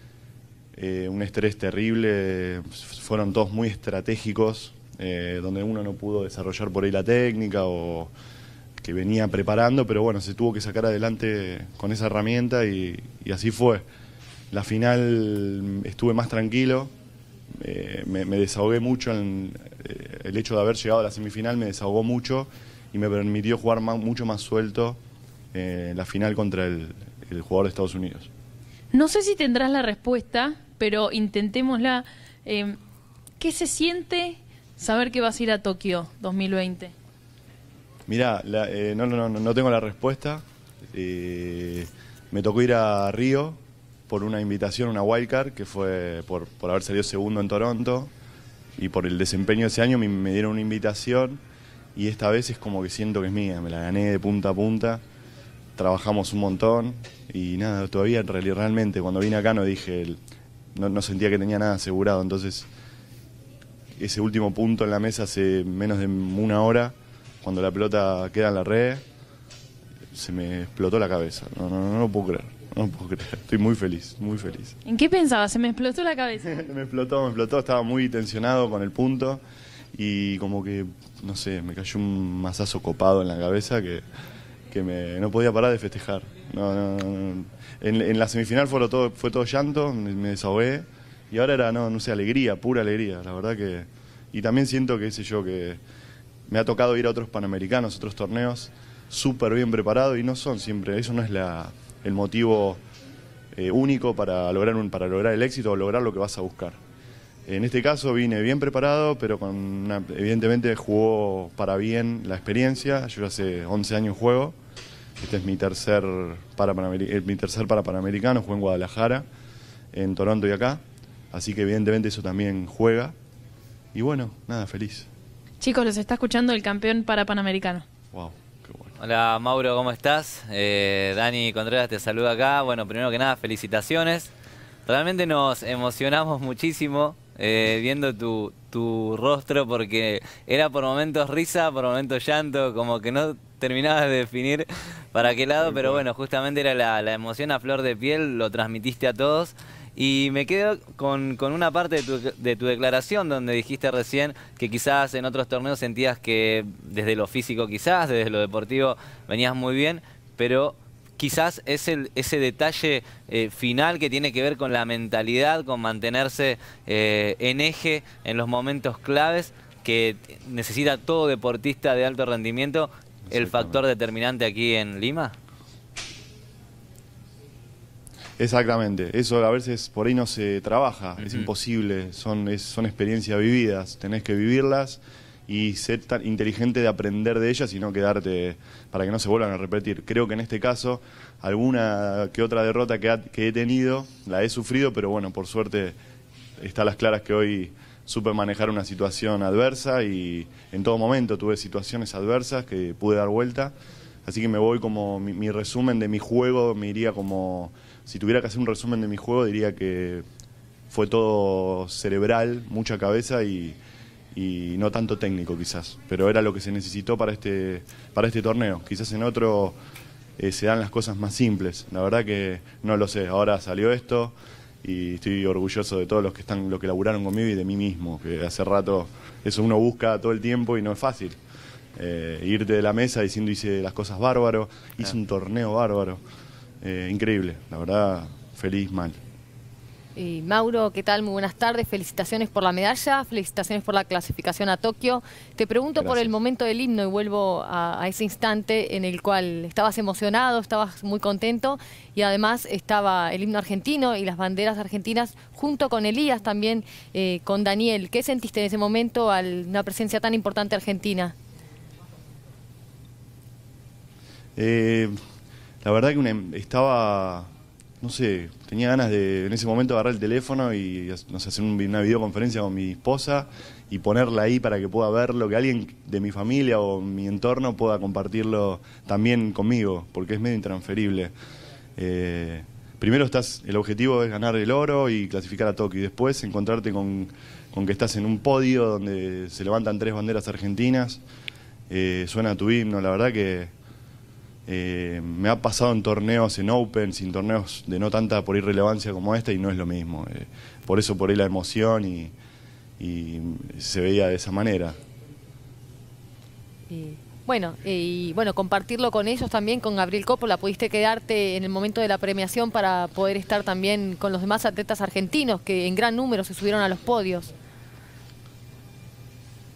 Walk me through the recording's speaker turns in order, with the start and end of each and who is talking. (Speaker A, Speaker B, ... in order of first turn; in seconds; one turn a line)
Speaker A: 0.8-8.1
Speaker A: 8.8-13.8
Speaker A: 14.5-16.9
Speaker A: 17.6-25.0
Speaker A: 25.5-28.3
Speaker B: 28.9-32.8
Speaker B: 33.4-36.9
Speaker A: 38.1-48.1
Speaker A: 48.8-51.4
Speaker A: 52.0-55.0
Speaker A: 55.8-60.2
Speaker A: 60.8-62.7
Speaker A: 64.0-69.0
Speaker A: 70.1-74.8
Speaker B: 74.8-76.5
Speaker A: 76.5-79.4
Speaker A: 79.9-84.0
Speaker A: 84.7-95.8
Speaker A: 96.5-102.8
Speaker A: 103.5-106.8
Speaker A: 107.5-114.6
Speaker A: 115.2-119.2
Speaker A: 119.9-120.8
Speaker A: 121.3-123.2
Speaker A: 123.9-125.1
Speaker B: 125.6-127.9
Speaker A: 128.1-128.9
Speaker C: 129.0-134.3
Speaker C: 134.9-175.3
Speaker A: 145.6-146.0
Speaker A: 173.3-173.8
Speaker A: 178.4-196.0
Speaker C: 181.2-181.5
Speaker A: 196.6-203.8
Speaker A: 204.3-210.2
Speaker A: 210.9-213.8
Speaker A: 214.3-219.8
Speaker A: 220.4-231.4
Speaker A: 232.0-236.2
Speaker A: 236.8-239.2
Speaker D: 240.2-261.3
Speaker A: 246.0-246.3
Speaker A: 264.6-265.2
Speaker A: 265.8-267.5
Speaker A: 268.0-281.3
Speaker A: 282.0-291.2
Speaker A: 291.9-293.7
Speaker A: 294.7-302.3
Speaker A: 303.0-305.0
Speaker D: 306.9-317.5